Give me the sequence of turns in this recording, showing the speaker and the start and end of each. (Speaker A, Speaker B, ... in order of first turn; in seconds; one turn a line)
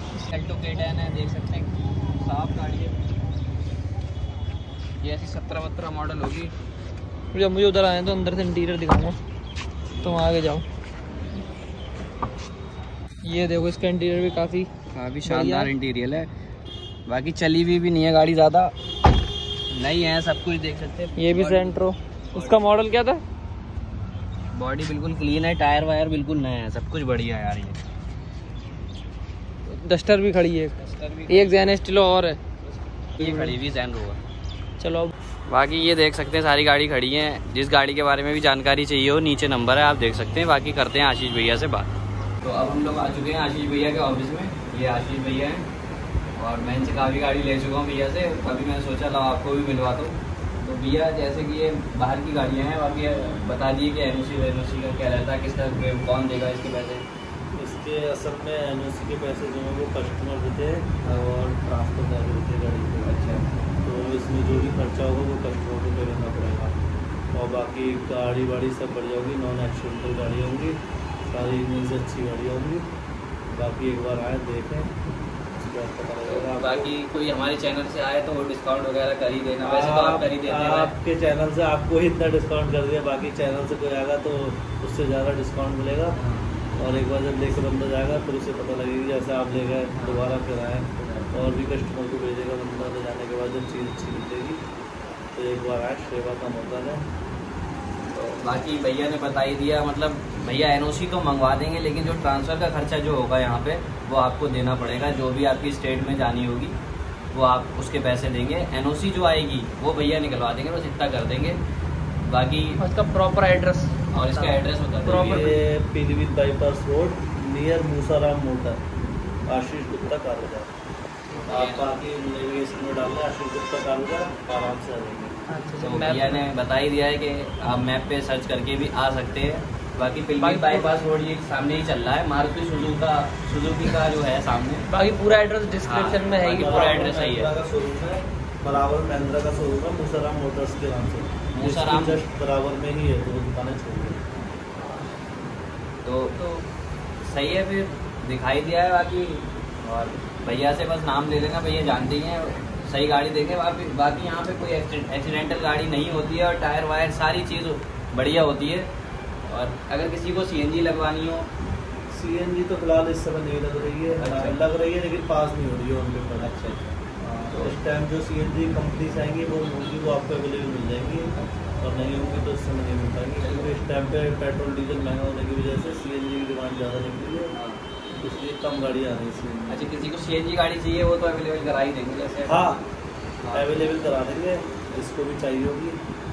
Speaker A: 0.1-3.0
Speaker A: 5.0-6.5
Speaker B: 7.3-9.2
Speaker B: 10.0-10.6
Speaker B: 13.2-14.7
Speaker A: 14.9-16.3
Speaker B: 15.2-15.7
Speaker A: 17.1-18.7
Speaker A: 19.7-21.8
Speaker B: 21.2-23.2
Speaker A: 22.3-22.6
Speaker A: 24.5-27.8
Speaker B: 29.7-30.7
Speaker A: 30.8-31.8
Speaker B: 31.3-32.4
Speaker A: 32.6-34.2
Speaker B: 33.2-33.5
Speaker B: 34.8-35.1
Speaker A: 35.5-45.6
Speaker A: 46.4-57.0
Speaker C: 57.5-63.1
Speaker A: 63.0-63.4
Speaker C: 63.8-66.8
Speaker C: 67.3-72.9
Speaker C: 73.5-74.9
Speaker C: 75.5-76.9
Speaker A: 76.2-80.9
Speaker C: 79.6-86.2
Speaker A: 86.1-86.6
Speaker C: 86.8-94.6
Speaker A: 89.9-90.3
Speaker A: 91.0-91.3
Speaker C: 95.3-97.1
Speaker A: 98.1-106.8
Speaker A: 107.3-111.6
Speaker A: 112.2-112.8
Speaker B: 112.8-115.6
Speaker A: 114.1-115.5
Speaker C: 115.2-118.8
Speaker C: 119.5-120.7
Speaker A: 121.3-122.0
Speaker C: 121.5-125.3
Speaker B: 125.5-126.4
Speaker A: 125.8-134.9
Speaker B: 130.4-130.9
Speaker B: 134.9-136.9
Speaker A: 135.8-137.5
Speaker C: 136.5-144.2
Speaker A: 141.5-142.2
Speaker A: 146.0-146.3
Speaker B: 146.4-146.6
Speaker A: 147.2-158.9
Speaker A: 159.4-161.5
Speaker C: 162.1-166.5
Speaker A: 164.1-164.6
Speaker A: 166.4-166.9
Speaker C: 167.2-177.5
Speaker A: 171.3-171.7
Speaker A: 173.4-173.8
Speaker A: 177.5-177.8
Speaker C: 178.2-179.9
Speaker A: 179.7-182.7
Speaker C: 182.4-182.9
Speaker A: 183.4-184.0
Speaker C: 183.5-186.0